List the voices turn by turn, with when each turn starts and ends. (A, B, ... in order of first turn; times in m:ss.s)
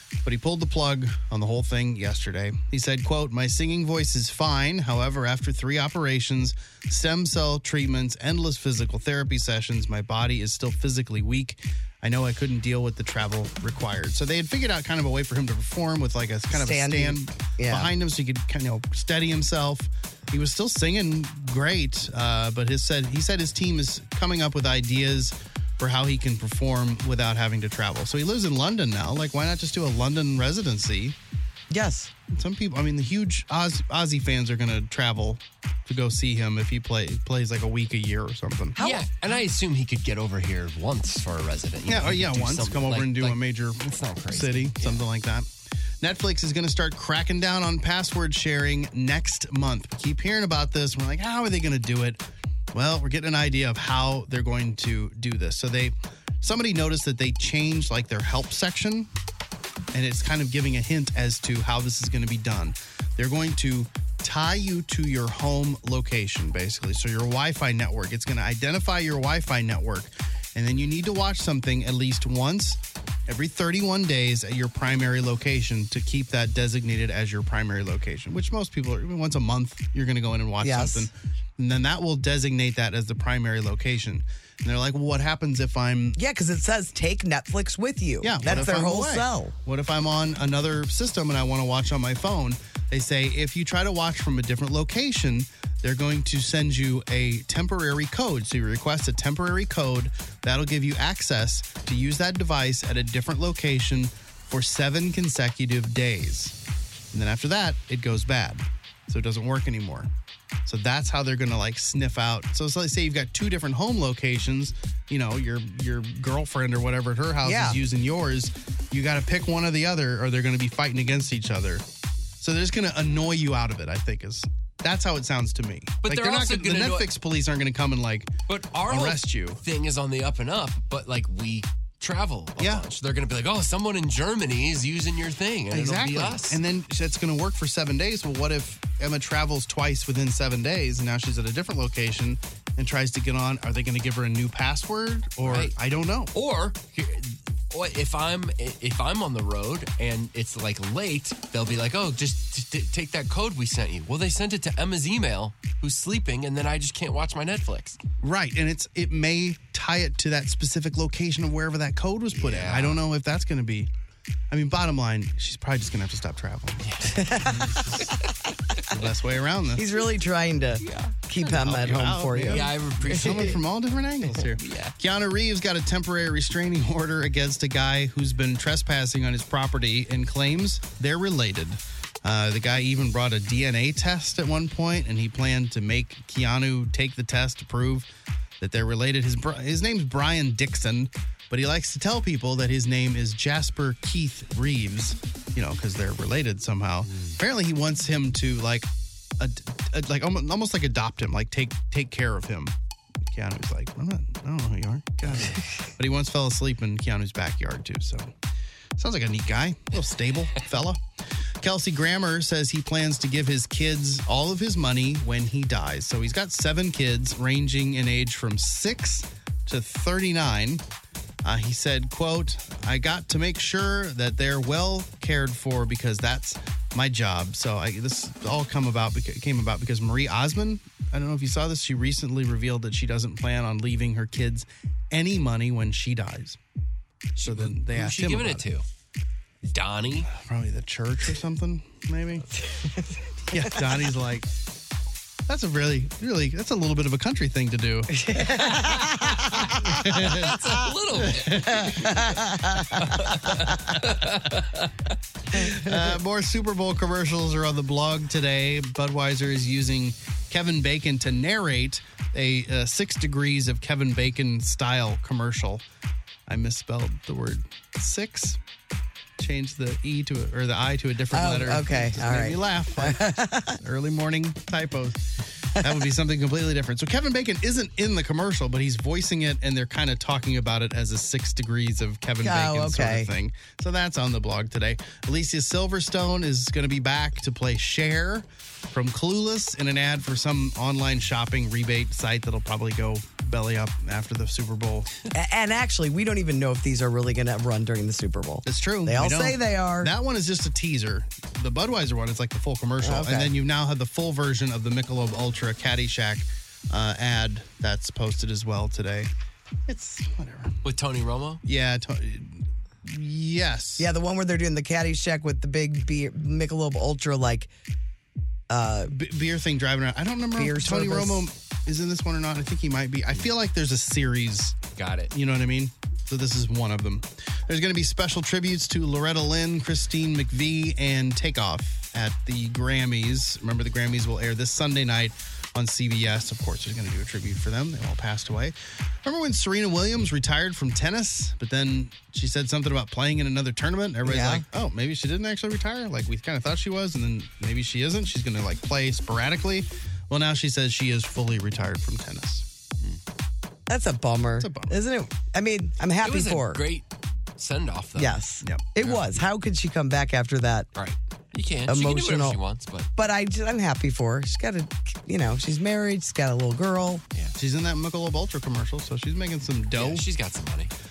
0:00.2-0:31.2 A
0:16.5-0:17.9 B
0:31.7-0:32.1 B
0:32.3-0:38.8 A
0:38.8-0:39.1 B
0:38.8-0:45.0 C
0:41.9-0:45.5 A
0:46.0-0:59.1 A
0:59.9-1:26.2 A
1:20.6-1:21.1 B
1:26.2-1:29.6 B
1:28.2-1:46.6 A
1:47.1-1:50.1 A
1:50.7-2:01.8 A
1:57.4-1:57.8 B
2:02.4-2:08.3 A
2:06.0-2:07.1 C
2:08.5-2:16.6 C
2:08.9-2:09.6 A
2:12.6-2:12.8 A
2:15.7-2:26.3 A
2:25.4-2:25.8 C
2:26.3-2:38.0 C
2:38.2-2:43.9 A
2:42.3-2:43.0 C
2:44.5-2:48.2 A
2:46.8-2:47.4 C
2:47.2-2:47.7 B
2:48.8-2:50.0 A
2:49.8-2:53.5 B
2:50.9-2:51.1 C
2:51.5-3:08.1 A
2:52.5-2:53.6 C
2:54.6-2:54.9 C
3:08.6-3:18.9 A
3:17.1-3:17.4 C
3:19.4-3:22.7 A
3:23.3-3:28.3 A
3:29.0-3:31.0 A
3:31.6-3:40.8 A
3:41.4-3:56.6 A
3:57.4-3:58.8 C
3:57.4-3:58.6 A
3:59.7-4:00.3 C
4:00.3-4:02.5 A
4:02.8-4:03.6 B
4:03.5-4:04.5 A
4:05.5-4:08.2 A
4:08.1-4:10.2 B
4:08.6-4:12.2 C
4:09.9-4:10.7 A
4:11.2-4:12.3 A
4:11.7-4:13.3 B
4:12.9-4:14.9 C
4:15.6-4:25.8 A
4:15.6-4:16.0 B
4:26.5-4:28.6 A
4:29.4-4:35.2 A
4:31.3-4:33.8 B
4:35.8-4:55.1 A
4:42.4-4:43.3 B
4:55.3-5:00.1 B
4:58.6-5:09.3 A
5:03.0-5:03.5 B
5:09.9-5:10.8 A
5:10.8-5:11.6 C
5:11.6-5:14.1 A
5:14.0-5:17.7 B
5:18.7-5:19.1 B
5:19.1-5:24.8 A
5:20.6-5:21.5 B
5:25.0-5:25.3 C
5:25.3-5:52.7 A
5:44.2-5:44.7 B
5:53.9-5:56.8 B
5:54.6-5:55.0 A
5:56.2-5:57.1 C
5:57.6-5:58.4 C
5:58.2-6:00.9 B
5:58.6-5:58.9 A
6:01.0-6:03.1 C
6:01.9-6:02.6 B
6:03.2-6:07.2 B
6:07.6-6:10.2 A
6:09.9-6:10.9 C